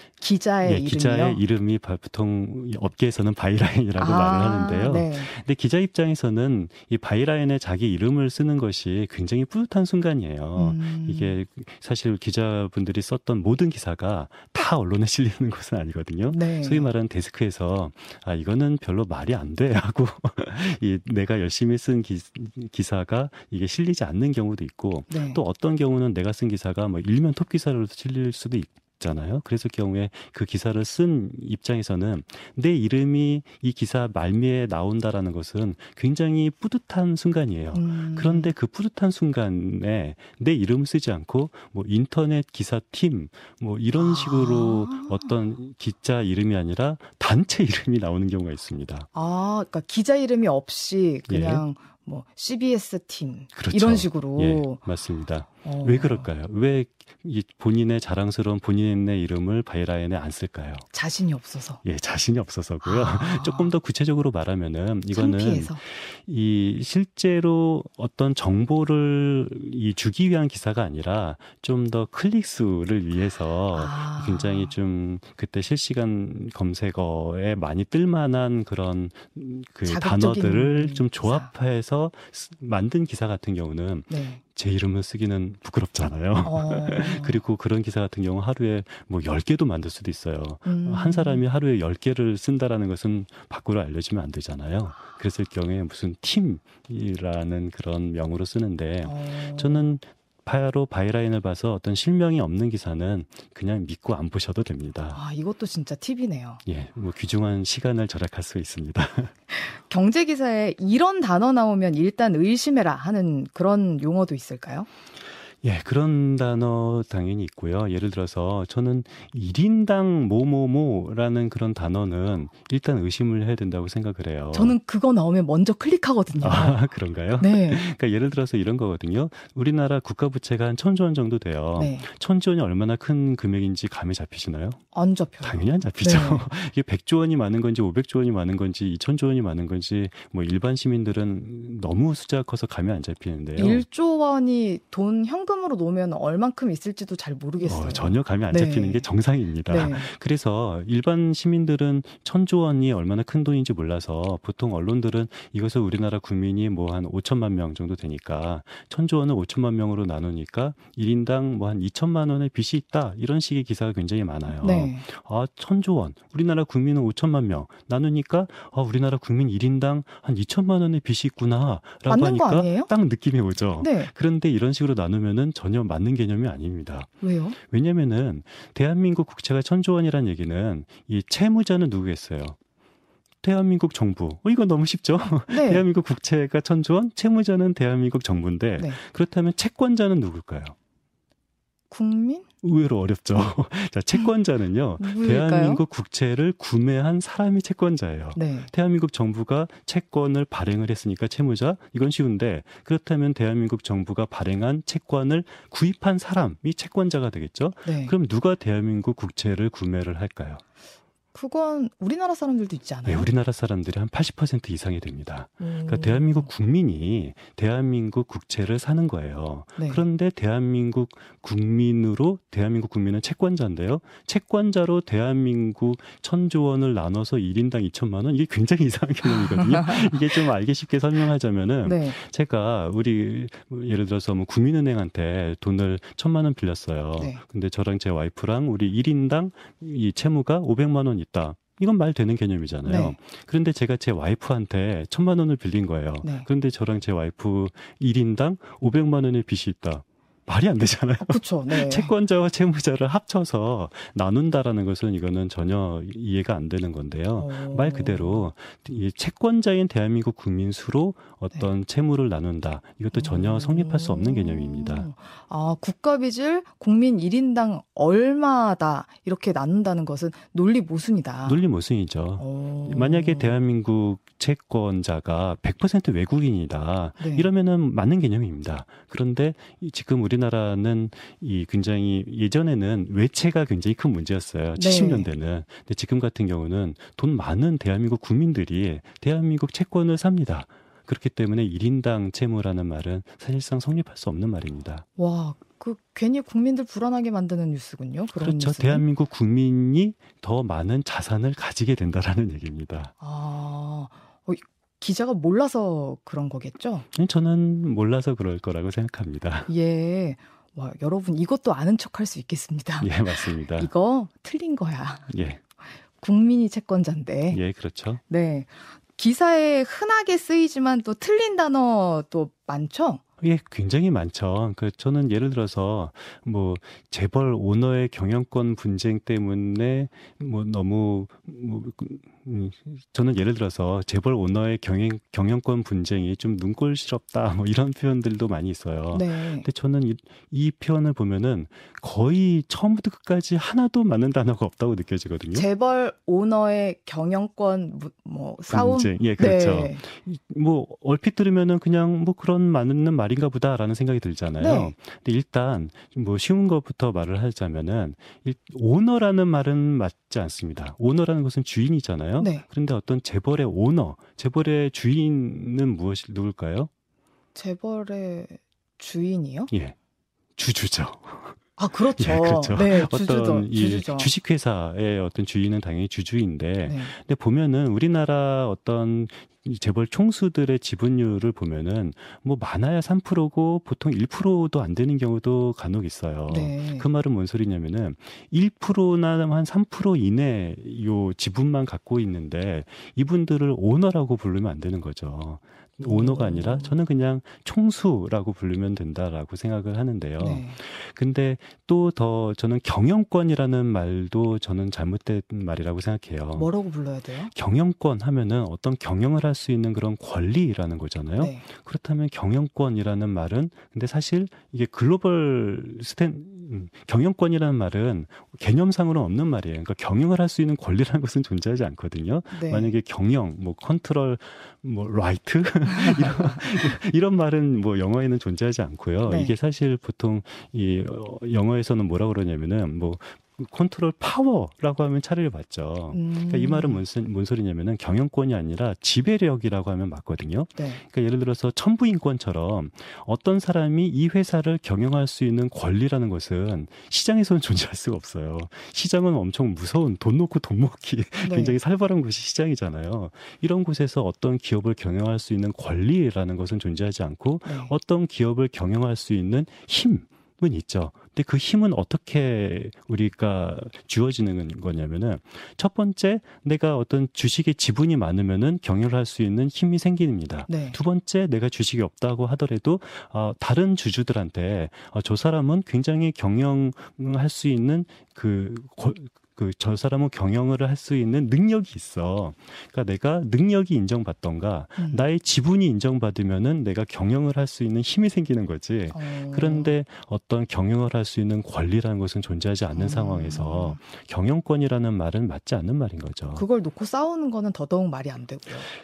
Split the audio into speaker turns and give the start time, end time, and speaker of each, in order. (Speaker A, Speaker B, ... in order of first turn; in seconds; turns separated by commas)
Speaker A: 0.2-1.4, Speaker B: 0.6-49.1, Speaker A: 4.0-5.3, Speaker A: 10.6-11.4, Speaker A: 16.3-16.9, Speaker A: 25.1-25.4, Speaker A: 37.7-38.5, Speaker A: 44.0-45.3, Speaker A: 49.1-54.8, Speaker B: 51.3-51.6, Speaker B: 53.6-60.9, Speaker A: 55.6-56.3, Speaker A: 60.9-61.8, Speaker B: 61.8-105.2, Speaker A: 62.8-63.7, Speaker A: 65.1-65.8, Speaker A: 73.7-74.7, Speaker A: 79.8-81.5, Speaker A: 84.1-84.4, Speaker A: 86.5-87.4, Speaker A: 90.7-91.4, Speaker A: 99.0-99.9, Speaker A: 105.1-106.6, Speaker B: 106.7-109.3, Speaker A: 109.5-114.9, Speaker B: 115.6-124.8, Speaker A: 124.5-126.8, Speaker B: 126.4-134.8, Speaker A: 127.4-127.8, Speaker A: 131.8-132.1, Speaker A: 134.9-136.5, Speaker B: 135.4-143.8, Speaker A: 143.6-149.0, Speaker B: 147.6-182.6, Speaker A: 149.7-150.1, Speaker A: 164.6-165.1, Speaker A: 172.1-172.9, Speaker A: 173.8-174.1, Speaker A: 177.2-177.6, Speaker B: 183.4-190.8, Speaker A: 185.5-185.8, Speaker A: 191.9-192.5, Speaker B: 192.6-210.6, Speaker A: 195.0-195.8, Speaker A: 198.4-198.7, Speaker A: 207.8-208.1, Speaker A: 211.3-213.3, Speaker B: 213.1-265.1, Speaker A: 215.6-216.5, Speaker A: 219.8-220.0, Speaker A: 229.3-230.1, Speaker A: 231.8-232.2, Speaker A: 242.9-243.2, Speaker A: 251.2-252.1, Speaker A: 257.4-258.5, Speaker A: 263.1-271.6, Speaker B: 271.5-295.1, Speaker A: 272.4-273.6, Speaker A: 277.2-277.5, Speaker A: 284.8-285.3, Speaker A: 295.2-299.1, Speaker B: 298.4-303.1, Speaker A: 303.2-307.1, Speaker B: 307.1-309.7, Speaker A: 309.7-315.3, Speaker B: 313.0-313.9, Speaker B: 315.3-315.6, Speaker A: 316.2-317.6, Speaker B: 317.5-318.2, Speaker A: 318.3-323.2, Speaker B: 323.4-345.7, Speaker A: 339.1-339.7, Speaker A: 345.5-350.0, Speaker B: 348.7-366.9, Speaker A: 354.6-354.9, Speaker A: 362.4-362.6, Speaker A: 367.6-369.7, Speaker B: 370.6-371.6, Speaker A: 371.8-374.3, Speaker B: 372.2-406.7, Speaker A: 376.9-377.1, Speaker A: 386.5-387.1, Speaker A: 396.0-397.0, Speaker A: 400.4-400.8, Speaker A: 406.6-407.5, Speaker B: 407.5-496.6, Speaker A: 411.4-411.6, Speaker A: 422.5-422.9, Speaker A: 426.0-426.6, Speaker A: 429.3-429.5, Speaker A: 436.1-437.0, Speaker A: 440.8-441.0, Speaker A: 451.4-451.8, Speaker A: 457.6-457.9, Speaker A: 470.7-471.0, Speaker A: 485.0-485.2, Speaker A: 489.1-489.9, Speaker A: 492.9-494.0, Speaker A: 496.6-498.9